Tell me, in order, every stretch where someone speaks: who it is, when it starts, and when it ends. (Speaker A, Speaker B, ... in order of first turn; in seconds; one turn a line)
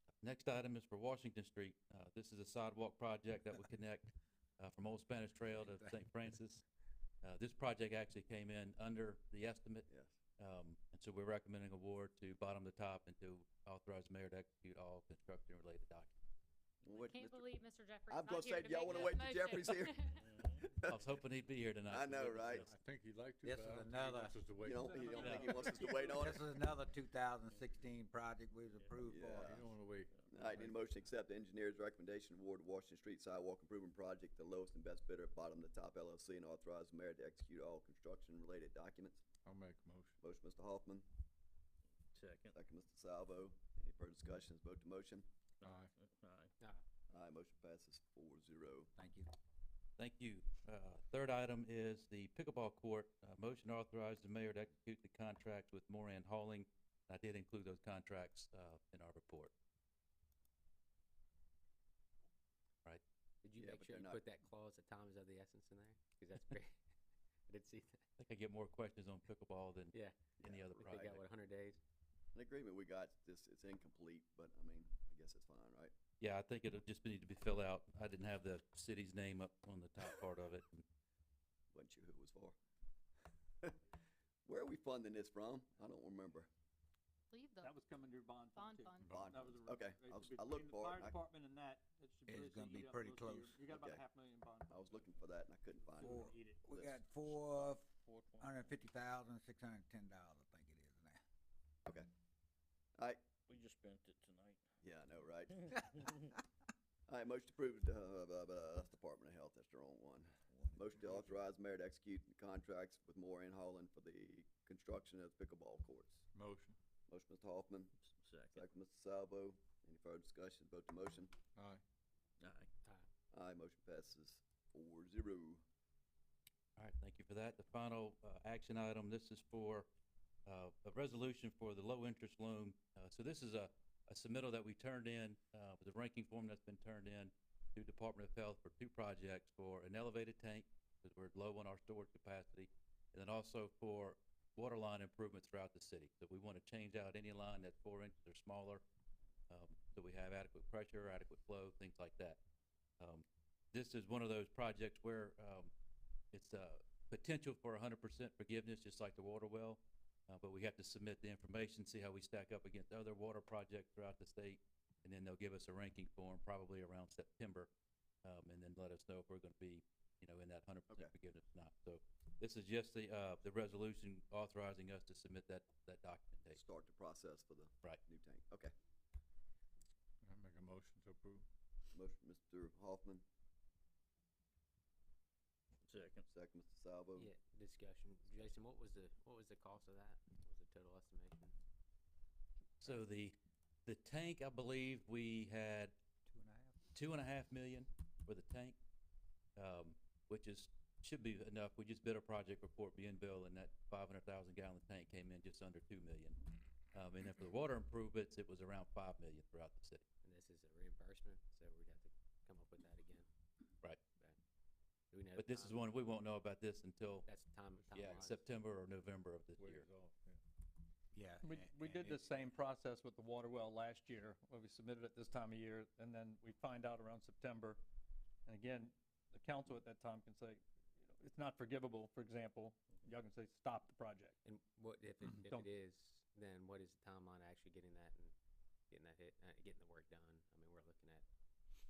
Speaker A: 0.2-6.6
Speaker B: 5.5-6.1
Speaker A: 7.2-9.9
Speaker C: 9.9-10.2
Speaker A: 10.4-16.1
Speaker C: 16.9-17.5
Speaker D: 16.9-20.2
Speaker C: 18.1-21.0
Speaker E: 20.2-20.6
Speaker A: 20.9-22.7
Speaker C: 21.9-22.7
Speaker F: 22.6-26.1
Speaker B: 23.4-24.4
Speaker C: 24.6-26.5
Speaker D: 24.9-25.9
Speaker A: 25.2-25.5
Speaker B: 26.1-29.6
Speaker C: 29.1-29.7
Speaker F: 29.4-30.1
Speaker C: 30.3-39.2
Speaker F: 39.4-40.2
Speaker C: 40.2-41.1
Speaker E: 42.1-42.5
Speaker C: 42.5-45.3
Speaker E: 45.6-46.5
Speaker F: 45.6-45.9
Speaker C: 47.1-48.9
Speaker B: 49.0-49.3
Speaker A: 50.0-59.5
Speaker G: 63.4-66.8
Speaker C: 63.6-64.2
Speaker G: 67.5-68.0
Speaker A: 68.2-71.2
Speaker G: 69.9-71.8
Speaker C: 70.4-71.0
Speaker C: 72.3-75.9
Speaker A: 76.2-80.8
Speaker C: 81.7-82.6
Speaker C: 84.5-86.5
Speaker D: 87.3-87.7
Speaker H: 87.6-95.1
Speaker D: 88.6-89.2
Speaker F: 89.0-89.4
Speaker C: 89.1-91.2
Speaker B: 92.3-93.6
Speaker C: 93.7-94.0
Speaker C: 94.7-97.1
Speaker H: 96.0-96.7
Speaker B: 96.0-97.9
Speaker E: 97.4-98.8
Speaker B: 98.4-101.2
Speaker E: 103.5-104.6
Speaker C: 104.8-105.5
Speaker E: 105.5-106.4
Speaker C: 107.1-116.2
Speaker B: 110.5-111.3
Speaker F: 116.3-116.8
Speaker C: 117.1-117.9
Speaker E: 118.0-118.7
Speaker C: 118.5-121.3
Speaker F: 121.5-121.8
Speaker E: 122.4-122.7
Speaker C: 123.3-125.6
Speaker A: 126.8-129.9
Speaker A: 130.5-148.8
Speaker A: 149.5-152.4
Speaker A: 153.0-155.7
Speaker A: 156.3-167.7
Speaker A: 168.2-176.6
Speaker C: 176.5-178.7
Speaker F: 180.2-181.5
Speaker C: 181.9-183.2
Speaker E: 185.9-186.3
Speaker C: 186.3-187.3
Speaker G: 187.2-191.5
Speaker A: 192.8-193.3
Speaker A: 193.9-195.9
Speaker B: 196.3-196.8
Speaker A: 196.9-198.8
Speaker A: 199.6-206.4
Speaker A: 206.9-210.0
Speaker G: 210.2-213.3
Speaker G: 215.1-215.9
Speaker A: 215.4-217.3
Speaker G: 217.3-218.4
Speaker A: 217.9-219.9
Speaker F: 219.6-220.4
Speaker B: 221.1-222.4
Speaker H: 221.4-227.8
Speaker H: 228.5-234.3
Speaker G: 234.4-238.3
Speaker G: 238.9-241.2